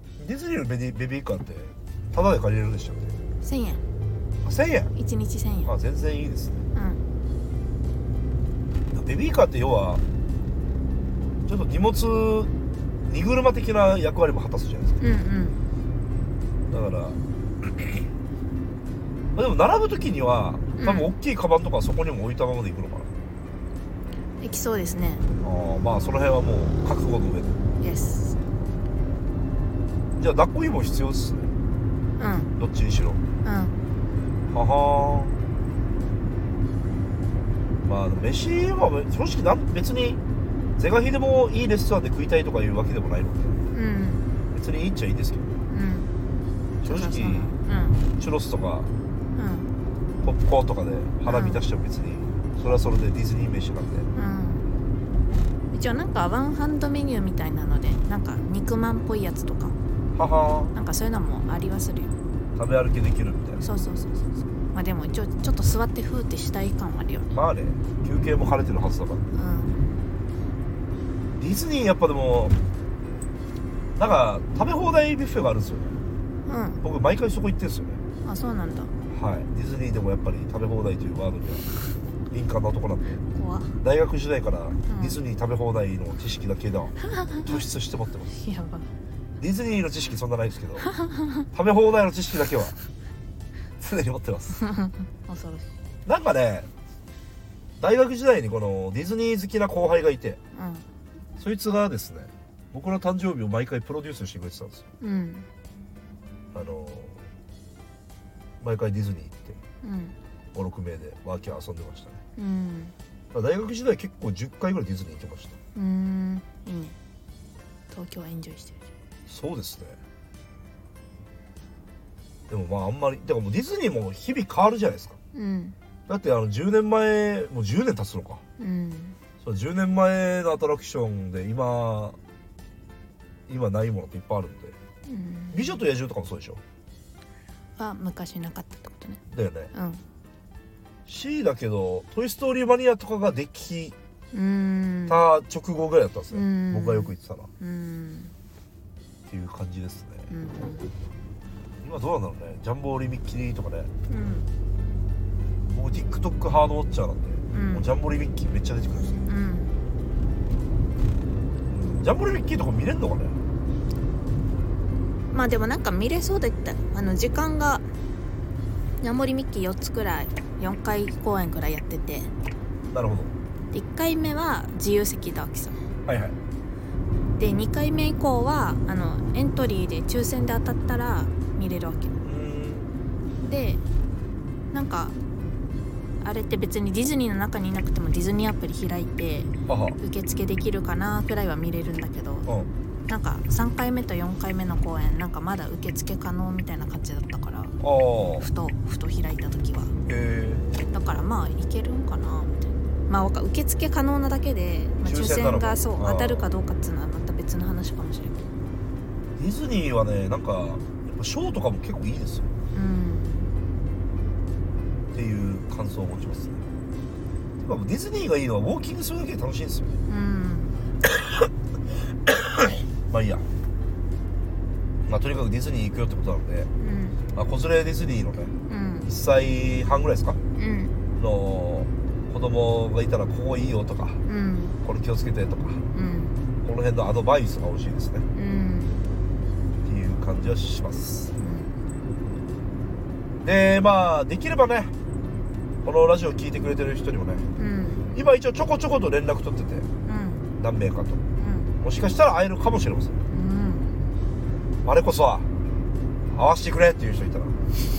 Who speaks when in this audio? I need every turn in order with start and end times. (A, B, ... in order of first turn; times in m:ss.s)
0:00.2-0:03.2 A
0:03.4-0:03.8 B
0:04.4-0:04.9 A
0:04.9-0:05.7 B
0:05.6-0:06.6 A
0:06.7-0:07.0 B
0:08.9-0:10.0 A
0:11.5-0:12.5 A
0:13.0-0:15.0 A
0:15.0-0:15.6 B
0:16.7-0:18.0 A
0:19.3-0:23.1 A
0:20.8-0:21.1 B
0:24.4-0:25.3 B
0:25.4-0:27.6 A
0:27.8-0:28.4 B
0:30.2-0:31.5 A
0:32.2-0:32.5 B
0:32.6-0:33.2 A
0:33.4-0:33.8 B
0:34.5-0:35.4 A
0:37.8-0:40.2 A
0:40.8-0:43.6 A
0:43.7-0:44.3 B
0:44.5-0:45.5 A
0:45.7-0:46.1 B
0:46.8-0:47.5 A
0:46.8-0:48.0 B
0:48.2-0:48.9 A
0:49.3-0:49.7 B
0:50.2-0:54.1 A
0:51.3-0:51.6 B
0:54.1-0:54.6 B
0:55.7-0:59.8 B
1:00.1-1:00.7 A
1:00.7-1:02.1 B
1:02.5-1:03.6 A
1:03.6-1:07.3 B
1:07.3-1:09.2 A
1:09.3-1:09.8 B
1:11.4-1:12.6 A
1:14.0-1:16.0 A
1:16.4-1:16.8 B
1:16.8-1:18.0 A
1:18.2-1:18.9 B
1:19.1-1:21.6 A
1:22.3-1:23.2 A
1:23.3-1:23.8 B
1:23.8-1:28.3 A
1:24.9-1:25.2 B
1:27.0-1:27.6 B
1:28.3-1:28.9 B
1:29.4-1:30.9 A
1:30.8-1:31.4 B
1:31.5-1:32.8 A
1:33.8-1:34.6 A
1:34.6-1:35.7 B
1:36.0-1:36.7 A
1:37.8-1:40.4 A
1:40.5-1:40.8 B
1:41.4-1:44.8 A
1:45.0-1:45.5 B
1:46.5-1:47.2 A
1:48.6-1:49.6 A
1:49.8-1:50.1 B
1:50.5-1:52.2 A
1:52.4-1:52.9 B
1:53.3-1:55.6 A
1:55.7-1:57.0 B
1:57.9-1:58.8 B
1:59.3-2:00.0 A
2:02.5-2:05.2 A
2:05.3-2:05.8 B
2:06.1-2:08.4 A
2:08.6-2:09.2 B
2:09.4-2:12.2 A
2:13.5-2:14.8 A
2:15.0-2:15.8 B
2:15.5-2:16.6 A
2:17.8-2:19.2 B
2:19.3-2:19.7 A
2:19.7-2:20.0 B
2:21.1-2:23.9 A
2:24.3-2:25.2 B
2:25.1-2:27.5 A
2:26.3-2:28.3 B
2:29.3-2:30.3 A
2:30.3-2:30.9 B
2:31.8-2:33.9 A
2:34.1-2:34.5 B
2:35.7-2:39.3 A
2:37.5-2:37.8 B
2:39.2-2:39.7 B
2:41.7-2:43.4 A
2:45.3-2:47.8 B
2:49.0-2:52.3 B
2:52.9-2:53.3 A
2:53.7-2:55.8 B
2:56.0-2:56.4 A
2:57.4-3:02.2 B
3:02.2-3:02.9 A
3:03.4-3:03.8 B
3:04.7-3:05.2 B
3:06.2-3:12.5 B
3:09.7-3:10.0 A
3:13.1-3:17.8 B
3:17.8-3:18.5 A
3:18.4-3:20.0 B
3:20.1-3:20.6 A
3:20.9-3:28.4 B
3:25.0-3:26.4 A
3:29.4-3:32.5 A
3:32.7-3:33.5 B
3:35.1-3:36.6 A
3:37.6-3:40.0 A
3:40.0-3:40.8 B
3:43.0-3:43.5 A
3:45.0-3:46.7 A
3:46.8-3:47.2 B
3:47.3-3:48.5 A
3:48.7-3:49.1 B
3:49.0-3:50.4 A
3:50.5-3:50.9 B
3:51.2-3:54.2 A
3:54.2-3:54.8 B
3:54.8-3:55.8 A
3:55.9-3:56.4 B
3:56.6-3:58.3 A
3:58.3-3:59.0 B
3:59.8-4:01.3 A
4:01.3-4:01.7 B
4:03.4-4:04.9 A
4:05.8-4:07.4 A
4:07.6-4:08.1 B
4:08.1-4:09.9 A
4:10.0-4:10.5 B
4:10.6-4:11.2 A
4:11.4-4:11.7 B
4:11.8-4:13.2 A
4:13.3-4:13.9 B
4:14.8-4:15.5 A
4:16.3-4:17.6 A